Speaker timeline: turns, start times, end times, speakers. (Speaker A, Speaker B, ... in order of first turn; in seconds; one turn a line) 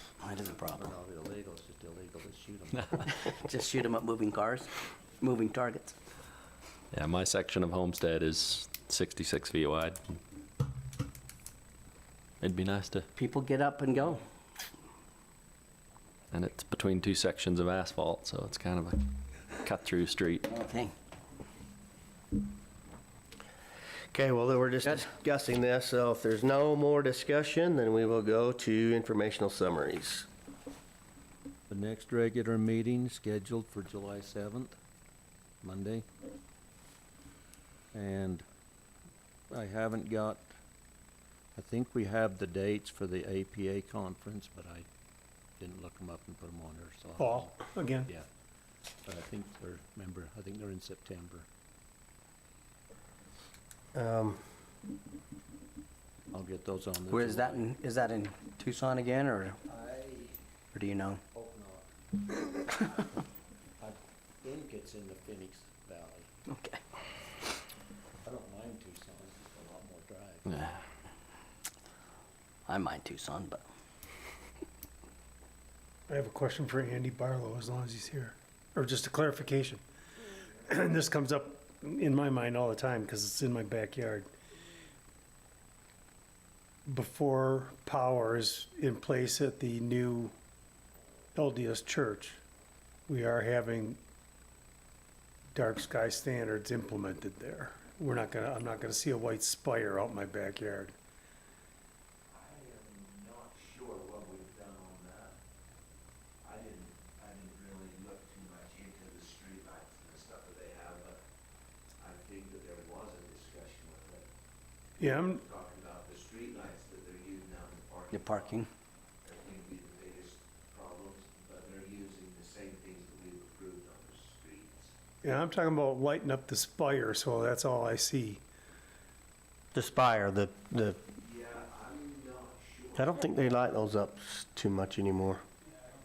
Speaker A: 0.2-0.9
Speaker B: 0.6-3.1
Speaker A: 3.2-6.0
Speaker C: 6.9-10.0
Speaker C: 12.4-13.1
Speaker A: 13.2-14.2
Speaker C: 16.3-19.0
Speaker C: 19.6-20.4
Speaker A: 20.4-20.9
Speaker D: 24.1-30.3
Speaker B: 31.7-34.8
Speaker B: 35.6-36.0
Speaker B: 37.9-38.4
Speaker B: 39.5-40.5
Speaker B: 41.5-44.9
Speaker B: 45.6-48.2
Speaker E: 47.2-48.1
Speaker B: 49.0-51.5
Speaker D: 53.9-54.4
Speaker B: 56.3-57.7
Speaker A: 57.1-59.6
Speaker B: 59.7-60.4
Speaker A: 60.7-61.2
Speaker B: 61.3-63.2
Speaker B: 63.8-66.3
Speaker A: 66.5-66.8
Speaker B: 68.2-70.7
Speaker A: 72.7-73.6
Speaker E: 76.1-79.8
Speaker E: 80.7-84.3
Speaker E: 86.9-90.3
Speaker E: 91.3-92.4
Speaker E: 93.1-94.0
Speaker E: 95.5-100.9
Speaker F: 102.3-105.3
Speaker F: 106.4-111.2
Speaker F: 112.0-114.2
Speaker E: 115.0-115.4
Speaker F: 115.3-118.4
Speaker A: 118.1-118.7
Speaker F: 119.2-124.9
Speaker E: 125.2-128.4
Speaker D: 129.7-131.0
Speaker F: 131.2-133.0
Speaker D: 132.9-135.4